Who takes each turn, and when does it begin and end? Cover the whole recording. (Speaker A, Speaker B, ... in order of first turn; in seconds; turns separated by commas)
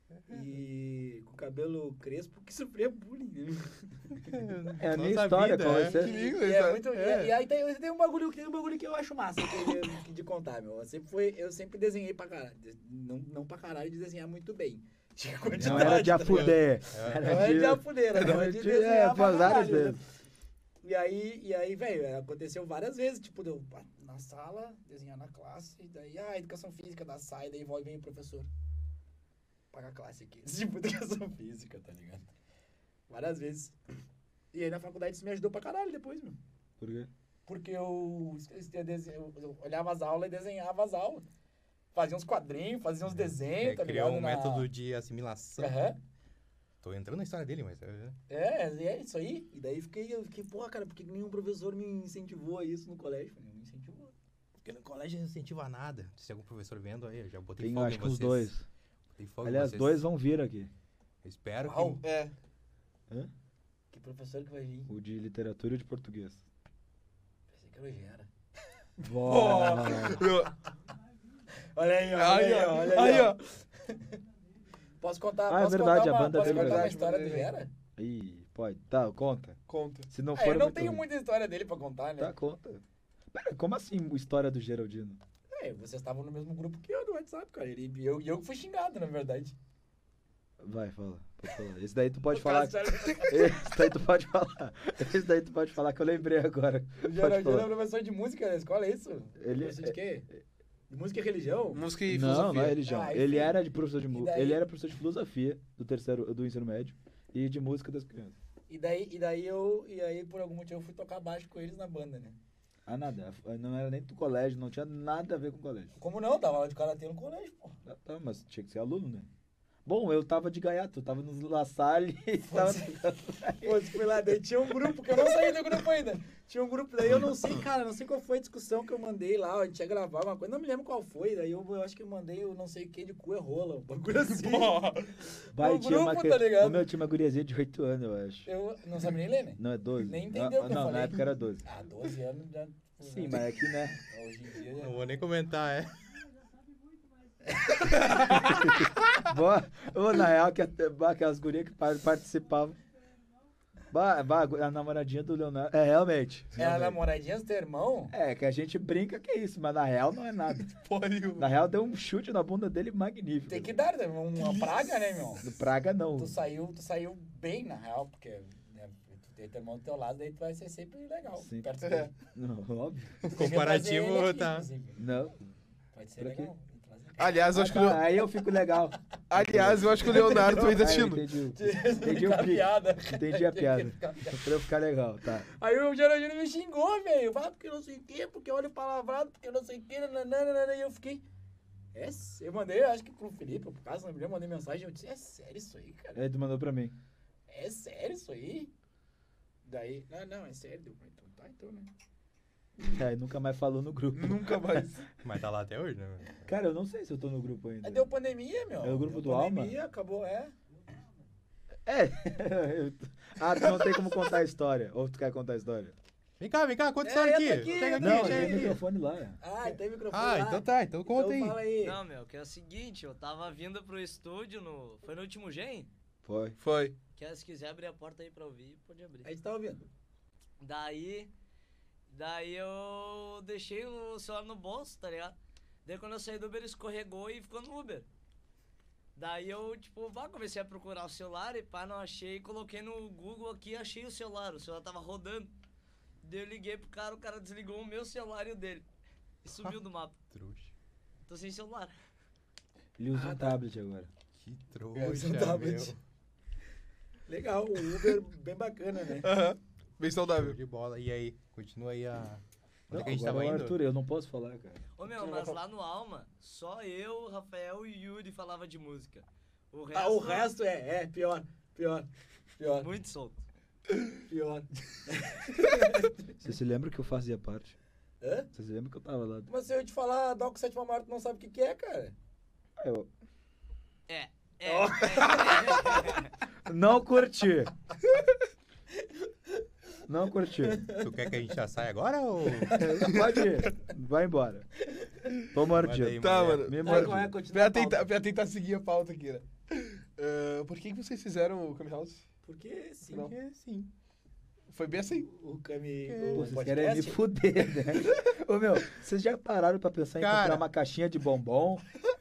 Speaker A: 0.3-4.5, Speaker B: 4.2-6.0, Speaker C: 4.8-6.2, Speaker D: 5.8-6.8, Speaker A: 5.8-20.0, Speaker B: 6.9-7.4, Speaker C: 15.6-20.0, Speaker B: 15.6-17.5, Speaker A: 20.8-28.5, Speaker A: 29.7-32.3, Speaker A: 33.1-33.8, Speaker A: 34.5-36.4, Speaker C: 36.8-37.1, Speaker A: 37.5-41.2, Speaker A: 41.9-44.7, Speaker B: 43.1-45.8, Speaker A: 45.6-46.0, Speaker B: 46.8-48.1, Speaker A: 48.3-54.1, Speaker B: 54.6-58.5, Speaker C: 57.6-58.6, Speaker B: 59.1-60.0, Speaker C: 59.4-60.7, Speaker B: 61.2-62.0, Speaker A: 61.6-62.0, Speaker D: 62.0-62.3, Speaker A: 63.9-64.9, Speaker C: 64.9-66.4, Speaker A: 67.5-68.3, Speaker C: 69.0-70.3, Speaker D: 69.0-70.5, Speaker A: 69.3-70.2, Speaker A: 71.6-74.2, Speaker D: 72.1-73.4, Speaker C: 72.8-73.3, Speaker A: 75.0-77.7, Speaker C: 75.5-77.0, Speaker D: 76.3-77.5, Speaker C: 78.0-81.0, Speaker D: 79.7-80.1, Speaker A: 80.3-82.3, Speaker C: 82.2-85.2, Speaker A: 85.5-89.5, Speaker C: 90.6-97.7, Speaker A: 92.3-93.7, Speaker A: 97.0-100.3, Speaker C: 99.4-100.4, Speaker A: 100.9-101.9, Speaker D: 101.7-102.8, Speaker C: 102.0-108.3, Speaker A: 102.6-103.6, Speaker A: 104.1-104.6, Speaker A: 108.7-112.4, Speaker C: 112.8-115.9, Speaker A: 116.0-117.8, Speaker C: 117.8-119.3, Speaker C: 119.8-124.0, Speaker A: 122.5-123.0, Speaker A: 123.6-136.9, Speaker D: 134.3-135.2, Speaker C: 135.5-138.5, Speaker A: 138.4-145.1, Speaker C: 139.6-141.7, Speaker C: 143.0-144.0, Speaker B: 144.7-146.1, Speaker A: 147.4-148.6, Speaker C: 148.1-152.8, Speaker C: 153.9-157.0, Speaker A: 156.6-158.1, Speaker C: 158.1-160.8, Speaker D: 160.8-161.5, Speaker C: 161.3-163.8, Speaker A: 163.5-165.5, Speaker D: 164.4-164.7, Speaker C: 165.4-166.4, Speaker A: 166.1-172.1, Speaker C: 171.3-173.2, Speaker B: 173.2-174.7, Speaker A: 173.3-175.1, Speaker C: 175.0-175.5, Speaker A: 175.9-177.8, Speaker C: 176.2-176.5, Speaker D: 177.2-178.1, Speaker C: 177.5-185.5, Speaker D: 179.3-181.2, Speaker A: 180.1-184.5, Speaker A: 185.5-191.2, Speaker A: 191.9-196.2, Speaker C: 196.1-196.9, Speaker A: 197.5-198.7, Speaker A: 199.6-201.9, Speaker C: 202.8-204.9, Speaker D: 204.1-205.1, Speaker B: 205.2-206.5, Speaker C: 206.4-208.1, Speaker A: 207.8-210.5, Speaker C: 208.8-209.8, Speaker C: 211.8-215.9, Speaker B: 216.4-218.8, Speaker A: 217.0-218.8, Speaker C: 217.9-219.4, Speaker A: 219.4-222.0, Speaker B: 220.1-221.6, Speaker E: 221.8-225.9, Speaker C: 226.2-226.6, Speaker D: 226.6-226.9, Speaker E: 227.2-229.3, Speaker A: 229.2-229.9, Speaker E: 230.6-231.3, Speaker E: 232.1-238.1, Speaker E: 239.2-245.5, Speaker E: 246.2-248.8, Speaker E: 249.4-250.2, Speaker B: 250.3-250.7, Speaker E: 251.3-251.9, Speaker C: 253.0-254.1, Speaker A: 253.1-253.6, Speaker B: 254.3-256.0, Speaker A: 254.9-256.0, Speaker A: 257.3-259.3, Speaker D: 259.2-260.6, Speaker B: 260.3-263.8, Speaker C: 262.9-264.8, Speaker E: 265.0-270.5, Speaker D: 265.1-265.6, Speaker A: 269.9-272.9, Speaker E: 272.8-273.4, Speaker A: 274.2-276.2, Speaker C: 276.4-277.8, Speaker A: 278.2-278.5, Speaker C: 278.5-279.5, Speaker A: 279.5-282.1, Speaker C: 282.8-283.1, Speaker E: 284.1-286.3, Speaker A: 284.6-286.2, Speaker C: 286.6-287.7, Speaker C: 290.1-290.9, Speaker A: 290.6-291.3, Speaker B: 290.9-292.9, Speaker A: 292.6-293.1, Speaker C: 292.7-294.7, Speaker D: 293.1-293.5, Speaker C: 295.5-297.3, Speaker B: 295.7-296.7, Speaker D: 296.2-302.2, Speaker A: 296.8-298.1, Speaker A: 302.4-303.3, Speaker B: 303.2-303.9, Speaker D: 304.7-305.3, Speaker A: 305.2-307.2, Speaker B: 306.1-306.5, Speaker C: 306.2-311.8, Speaker B: 310.2-310.6